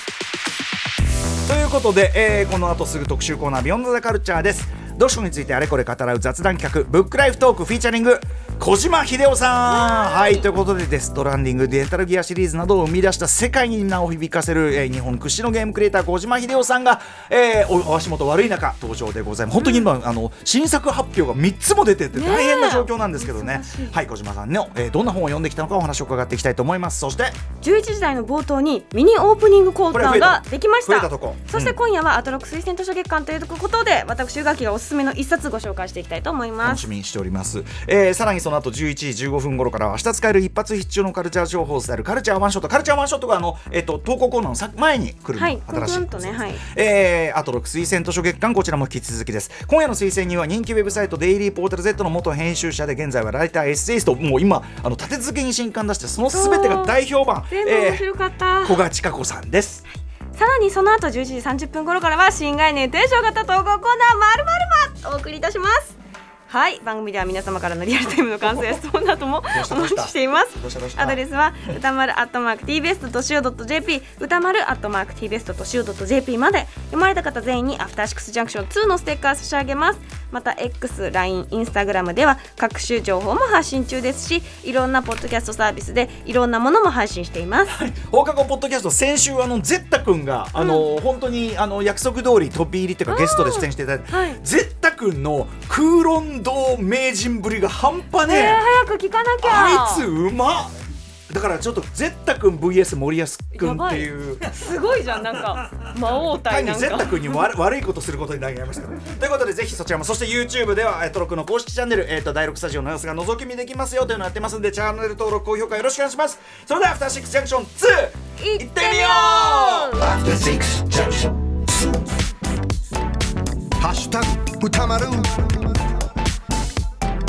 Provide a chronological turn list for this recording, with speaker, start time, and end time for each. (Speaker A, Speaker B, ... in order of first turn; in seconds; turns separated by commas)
Speaker A: 1.4-27.4, Speaker B: 9.7-10.5, Speaker B: 19.6-19.9, Speaker B: 22.1-24.0, Speaker B: 27.6-36.9, Speaker A: 29.9-31.8, Speaker A: 36.6-59.8, Speaker B: 45.4-46.6, Speaker B: 56.3-57.0, Speaker B: 57.5-58.8, Speaker B: 60.3-66.0, Speaker B: 66.5-87.8, Speaker A: 69.5-71.8, Speaker A: 87.7-98.7, Speaker B: 90.6-90.8, Speaker B: 93.1-94.4, Speaker B: 98.2-100.1, Speaker A: 99.4-100.7, Speaker A: 101.3-104.6, Speaker B: 103.5-107.4, Speaker A: 105.4-120.1, Speaker B: 118.4-120.2, Speaker C: 120.1-121.3, Speaker C: 123.8-125.6